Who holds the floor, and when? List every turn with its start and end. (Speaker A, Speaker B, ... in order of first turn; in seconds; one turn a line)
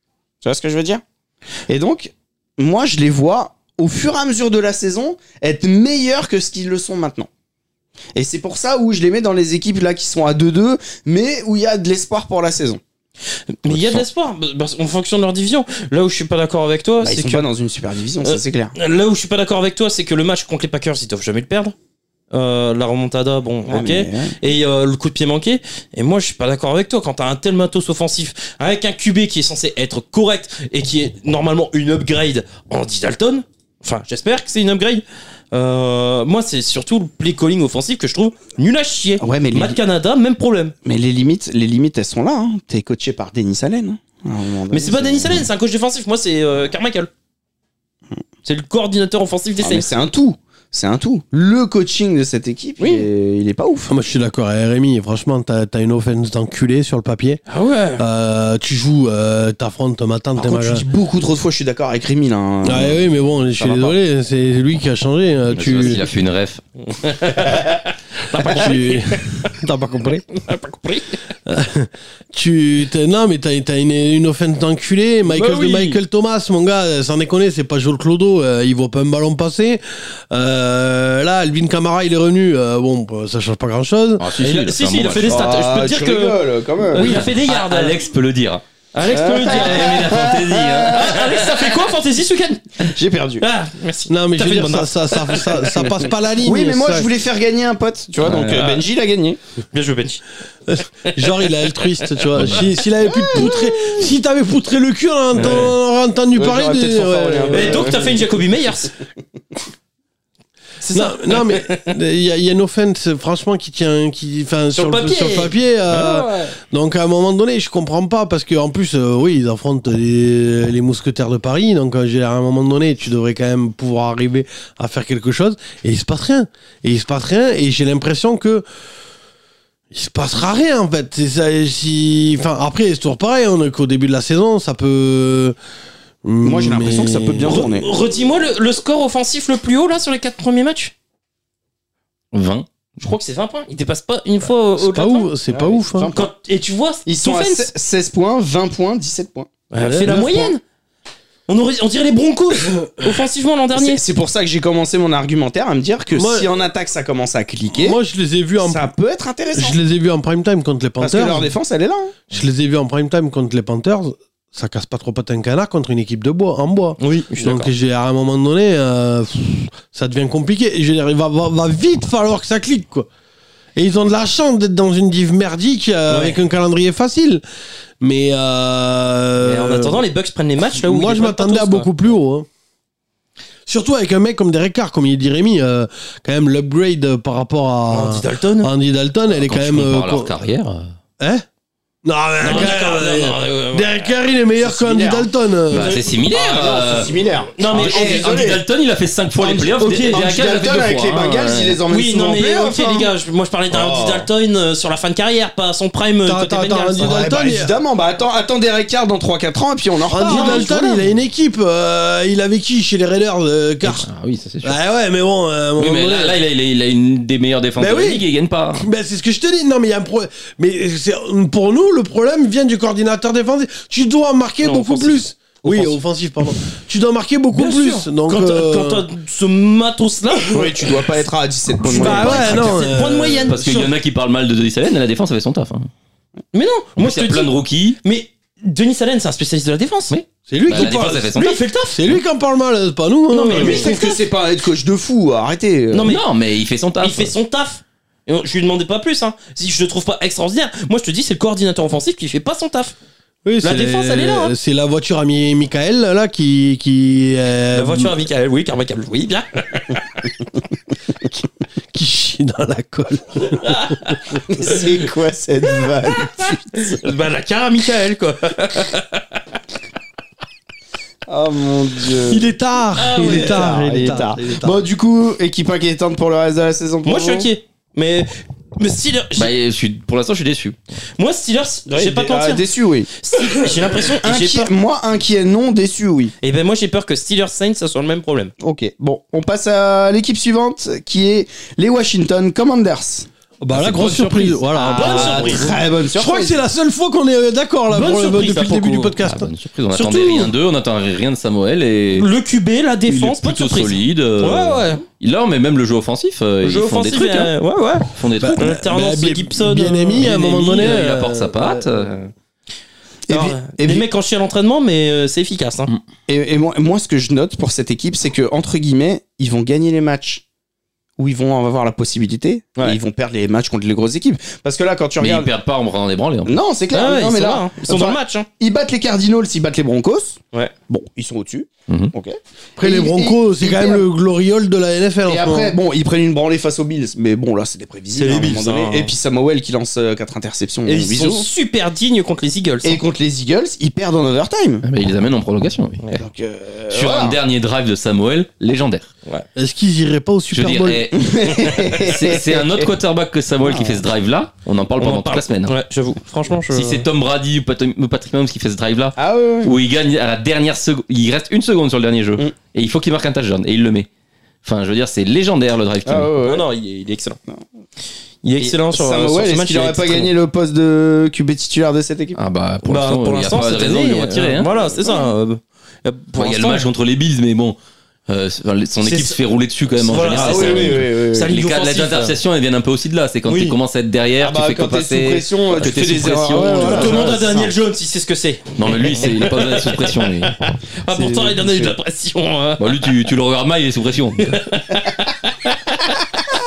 Speaker A: 0.4-1.0
Speaker A: 1.7-7.3
Speaker A: 8.2-12.8
Speaker B: 13.6-17.5
Speaker C: 13.7-14.1
Speaker A: 17.0-18.7
Speaker B: 18.2-21.8
Speaker B: 22.3-40.7
Speaker A: 23.7-24.4
Speaker A: 39.2-39.8
Speaker A: 40.9-45.5
Speaker B: 44.7-47.1
Speaker B: 48.5-49.9
Speaker A: 49.6-53.9
Speaker B: 52.8-53.1
Speaker D: 53.9-57.4
Speaker B: 57.5-58.0
Speaker D: 58.0-60.8
Speaker A: 60.4-64.0
Speaker D: 62.6-66.0
Speaker C: 65.5-66.6
Speaker B: 67.0-69.5
Speaker D: 68.4-70.3
Speaker B: 70.3-71.2
Speaker D: 71.5-84.3
Speaker B: 75.3-76.0
Speaker C: 84.2-85.5
Speaker B: 84.4-88.0
Speaker A: 85.2-87.3
Speaker C: 87.0-88.6
Speaker B: 88.9-90.4
Speaker A: 89.1-91.3
Speaker C: 89.4-91.6
Speaker B: 90.9-96.0
Speaker A: 92.8-93.5
Speaker D: 94.1-97.1
Speaker A: 96.4-99.4
Speaker B: 98.2-98.9
Speaker B: 99.7-100.2
Speaker D: 100.7-108.0
Speaker B: 101.1-102.6
Speaker A: 103.0-104.1
Speaker B: 105.3-105.7
Speaker A: 106.3-108.3
Speaker B: 107.5-108.9
Speaker B: 110.8-111.9
Speaker D: 110.9-128.6
Speaker B: 114.7-116.5
Speaker D: 129.9-135.6
Speaker D: 136.2-137.7
Speaker A: 136.4-137.9
Speaker B: 137.4-140.9
Speaker C: 142.3-142.7
Speaker B: 143.0-145.4
Speaker D: 144.8-146.1
Speaker A: 145.5-146.3
Speaker B: 146.1-147.7
Speaker A: 147.1-149.5
Speaker B: 149.7-150.6
Speaker D: 149.8-150.4
Speaker A: 150.1-150.5
Speaker B: 151.5-154.0
Speaker A: 153.8-158.0
Speaker D: 156.1-156.5
Speaker D: 157.7-158.8
Speaker A: 158.6-159.8
Speaker D: 159.6-161.5
Speaker A: 161.0-162.2
Speaker D: 162.3-173.1
Speaker B: 167.0-167.7
Speaker D: 173.8-177.4
Speaker B: 176.1-176.4
Speaker D: 178.0-180.0
Speaker B: 179.4-181.9
Speaker D: 180.8-182.5
Speaker D: 183.7-190.3
Speaker B: 187.9-188.7
Speaker C: 189.3-190.9
Speaker D: 191.2-191.4
Speaker D: 192.1-195.9
Speaker B: 192.4-194.1
Speaker A: 194.6-195.3
Speaker C: 195.7-197.1
Speaker B: 195.7-196.2
Speaker A: 196.1-198.6
Speaker B: 197.6-198.4
Speaker C: 197.7-201.8
Speaker A: 199.4-203.1
Speaker B: 199.8-200.2
Speaker B: 201.9-207.1
Speaker A: 203.7-204.3
Speaker D: 206.3-207.7
Speaker A: 207.0-210.9
Speaker D: 210.1-214.1
Speaker B: 210.2-210.9
Speaker C: 213.8-214.8
Speaker D: 214.6-216.4
Speaker C: 215.8-218.8
Speaker D: 217.8-218.2
Speaker D: 218.8-229.1
Speaker B: 224.6-226.0
Speaker B: 227.5-231.0
Speaker A: 230.4-232.8
Speaker B: 231.8-233.8
Speaker D: 231.9-233.9
Speaker C: 233.5-235.9
Speaker B: 236.5-240.1
Speaker C: 237.0-238.0
Speaker C: 240.1-242.2
Speaker D: 240.5-241.3
Speaker B: 240.7-242.0
Speaker D: 241.9-243.9
Speaker B: 243.3-244.2
Speaker A: 243.5-246.2
Speaker B: 245.9-246.2
Speaker C: 246.0-247.3
Speaker B: 247.0-252.9
Speaker D: 253.4-258.1
Speaker B: 253.6-254.5
Speaker B: 257.7-260.0
Speaker D: 261.9-264.2
Speaker B: 263.6-264.1
Speaker A: 264.5-267.0
Speaker B: 266.4-269.2
Speaker A: 271.3-272.5
Speaker D: 272.3-274.8
Speaker B: 273.0-273.8
Speaker A: 273.1-277.5
Speaker B: 277.1-279.5
Speaker C: 279.4-280.8
Speaker B: 281.2-282.6
Speaker A: 281.9-286.3
Speaker B: 283.2-284.7
Speaker B: 286.4-288.5
Speaker A: 288.6-293.3
Speaker D: 293.6-299.5
Speaker B: 293.7-295.8
Speaker A: 294.8-296.6
Speaker B: 297.9-299.1
Speaker C: 299.2-302.3
Speaker B: 299.9-300.5
Speaker B: 302.1-305.0
Speaker C: 303.1-307.5
Speaker B: 306.6-310.3
Speaker C: 308.1-308.8
Speaker D: 308.4-311.9
Speaker C: 310.2-312.3
Speaker A: 313.3-314.1
Speaker B: 313.3-315.9
Speaker A: 316.3-320.4
Speaker A: 321.2-325.5
Speaker C: 325.2-326.6
Speaker A: 326.4-334.1
Speaker B: 326.9-328.5
Speaker D: 332.8-335.8
Speaker A: 335.3-341.5
Speaker B: 338.2-339.1
Speaker B: 340.9-343.0
Speaker A: 342.8-344.9
Speaker C: 344.8-346.0
Speaker A: 346.2-347.4
Speaker C: 346.9-349.1
Speaker D: 349.6-351.1
Speaker C: 350.5-355.7
Speaker A: 351.1-352.9
Speaker A: 353.6-354.0
Speaker B: 355.0-357.1
Speaker C: 356.7-364.1
Speaker A: 359.2-359.8
Speaker C: 364.6-366.3
Speaker A: 366.1-366.7
Speaker B: 366.4-367.4
Speaker B: 368.4-370.3
Speaker A: 368.6-372.4
Speaker C: 372.4-374.7
Speaker B: 372.9-376.9
Speaker A: 374.8-375.4
Speaker C: 376.4-377.8
Speaker C: 378.3-387.4
Speaker B: 379.0-379.4
Speaker B: 380.0-382.4
Speaker A: 380.3-381.5
Speaker B: 383.5-383.8
Speaker A: 384.4-387.7
Speaker B: 386.5-393.1
Speaker C: 388.8-390.6
Speaker A: 391.1-391.9
Speaker C: 392.8-394.6
Speaker B: 394.4-396.0